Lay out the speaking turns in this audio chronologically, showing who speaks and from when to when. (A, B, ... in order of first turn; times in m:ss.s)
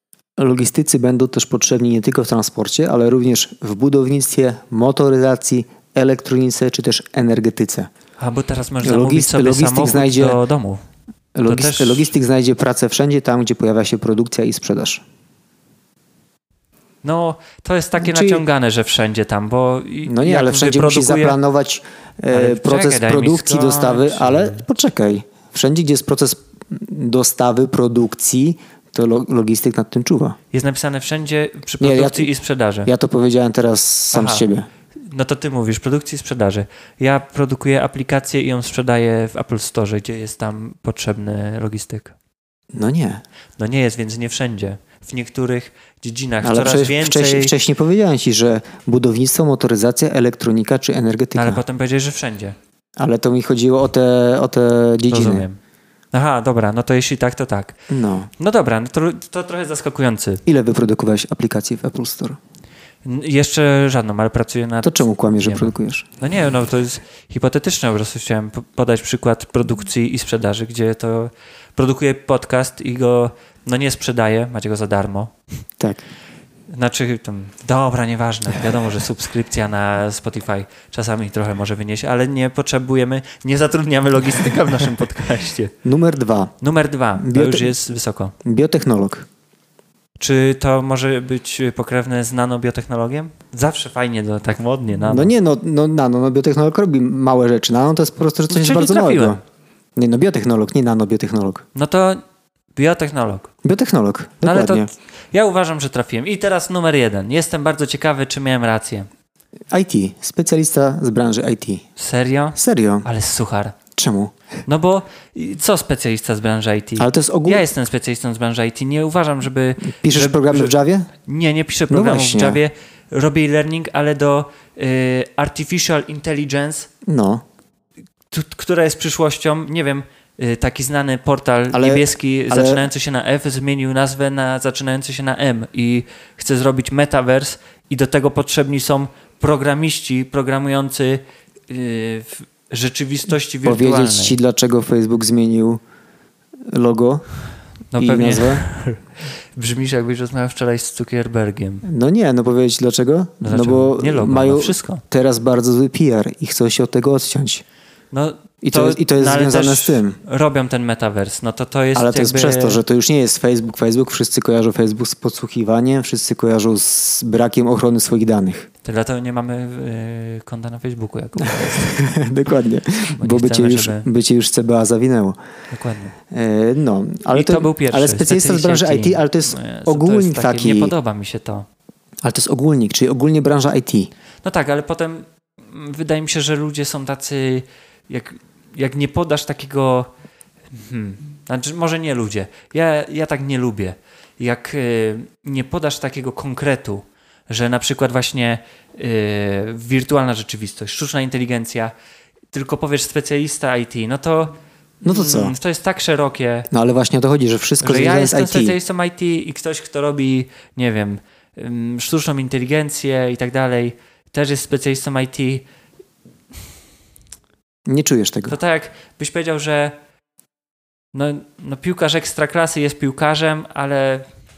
0:00.4-0:07.9 A
0:08.2-0:10.8 B
0:08.8-0:10.4 A
0:11.3-0:15.0 A
0:11.4-0:12.1 B
0:17.0-0:21.4 B
0:18.0-0:18.4 A
0:20.0-0:30.4 A
0:22.3-0:24.6 B
0:30.5-0:32.9 B
0:31.8-0:32.3 A
0:32.8-0:34.7 A
0:34.1-0:34.5 B
0:35.0-0:42.1 B
0:42.7-0:43.2 A
0:43.6-0:47.5 B
0:46.4-0:51.6 A
0:51.3-0:52.6 B
0:53.0-0:55.4 A
0:55.1-0:55.6 B
0:56.1-0:57.8 B
0:57.9-0:58.3 A
0:58.4-1:00.4 B
1:00.4-1:02.4 A
1:03.0-1:15.3 B
1:04.8-1:06.1 A
1:16.7-1:25.7 B
1:25.8-1:26.5 A
1:26.6-1:28.3 B
1:27.2-1:27.7 A
1:28.4-1:29.3 A
1:30.2-1:35.3 B
1:35.1-1:39.4 A
1:38.5-1:39.4 B
1:40.0-1:41.6 A
1:41.7-1:42.2 B
1:42.8-1:43.5 B
1:43.6-1:44.9 A
1:44.4-1:49.1 B
1:49.7-1:51.8 A
1:52.0-1:53.8 B
1:52.5-1:53.0 A
1:53.9-1:54.3 A
1:54.6-2:06.9 B
1:57.0-1:57.6 A
1:59.8-2:01.1 A
2:01.9-2:02.6 A
2:07.0-2:07.4 A
2:08.3-2:24.4 B
2:11.7-2:12.8 A
2:23.6-2:25.8 A
2:26.7-2:27.2 A
2:27.9-2:29.0 B
2:28.0-2:28.6 A
2:29.5-2:31.9 B
2:31.8-2:37.6 A
2:33.4-2:35.0 B
2:38.1-2:42.8 B
2:38.6-2:40.2 A
2:41.9-2:48.7 A
2:48.8-2:52.1 B
2:51.4-2:55.4 A
2:53.2-2:54.1 B
2:55.7-2:56.2 B
2:56.3-3:00.9 A
2:57.3-3:01.6 B
3:02.2-3:04.1 A
3:04.4-3:10.1 B
3:10.7-3:21.9 B
3:22.5-3:26.7 B
3:25.0-3:25.5 A
3:26.7-3:28.8 A
3:27.8-3:35.6 B
3:37.9-3:38.6 A
3:38.5-3:39.9 B
3:41.1-3:44.2 B